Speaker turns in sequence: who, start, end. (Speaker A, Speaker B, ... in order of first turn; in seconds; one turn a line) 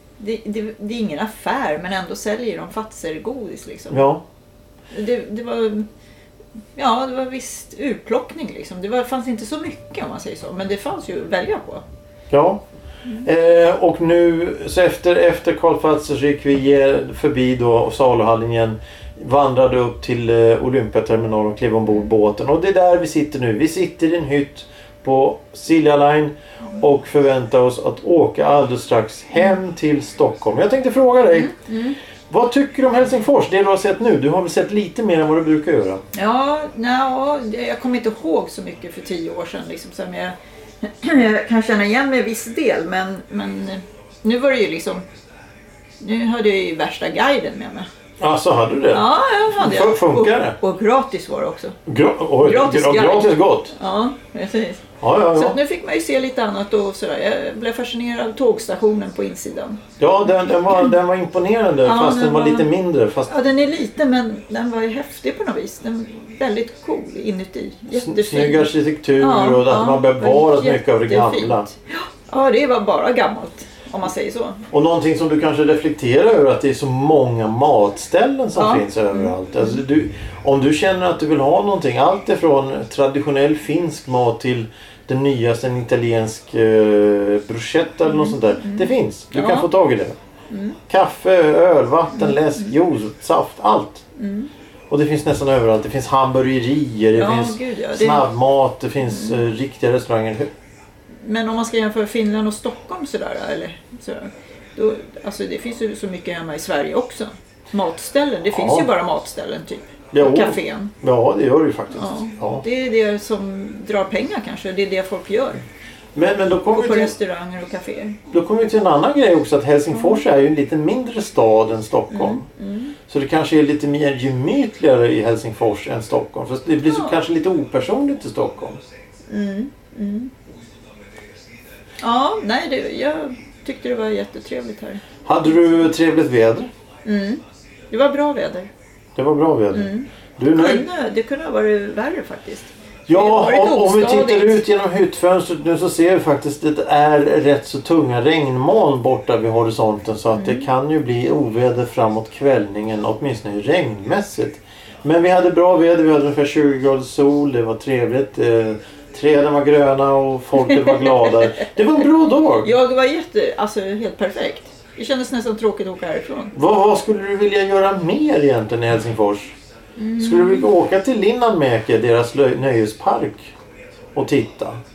Speaker A: 0.2-4.0
Speaker B: 3.9-4.2
Speaker A: 4.9-5.9
Speaker A: 6.8-11.8
Speaker B: 12.3-12.6
Speaker B: 13.2-31.5
Speaker A: 31.3-32.0
Speaker B: 32.3-36.0
Speaker A: 36.1-45.0
Speaker A: 46.0-47.9
Speaker B: 48.2-50.6
Speaker A: 48.9-51.8
Speaker B: 51.9-53.7
Speaker A: 52.4-59.8
Speaker B: 55.0-55.6
Speaker B: 60.0-63.4
Speaker A: 61.8-62.7
Speaker A: 63.3-74.6
Speaker B: 67.9-71.7
Speaker B: 74.7-90.2
Speaker A: 78.6-79.8
Speaker A: 88.0-89.7
Speaker A: 90.5-90.8
Speaker B: 90.9-94.0
Speaker A: 92.2-92.7
Speaker A: 94.2-94.5
Speaker B: 94.9-100.5
Speaker A: 97.2-98.3
Speaker A: 99.0-99.4
Speaker A: 101.2-110.9
Speaker B: 108.5-108.9
Speaker B: 110.1-112.6
Speaker A: 111.9-115.6
Speaker B: 116.2-117.2
Speaker A: 116.7-118.2
Speaker B: 118.3-122.5
Speaker A: 119.9-120.2
Speaker A: 122.1-123.0
Speaker B: 123.1-128.8
Speaker A: 126.8-127.2
Speaker A: 129.3-130.3
Speaker A: 132.0-135.1
Speaker B: 135.3-136.7
Speaker A: 137.1-138.7
Speaker B: 139.2-140.9
Speaker A: 139.7-144.6
Speaker B: 143.1-162.7
Speaker A: 150.3-150.7
Speaker A: 160.6-161.6
Speaker A: 162.6-166.5
Speaker B: 166.5-169.6
Speaker A: 170.0-170.7
Speaker B: 170.2-173.6
Speaker B: 174.1-174.8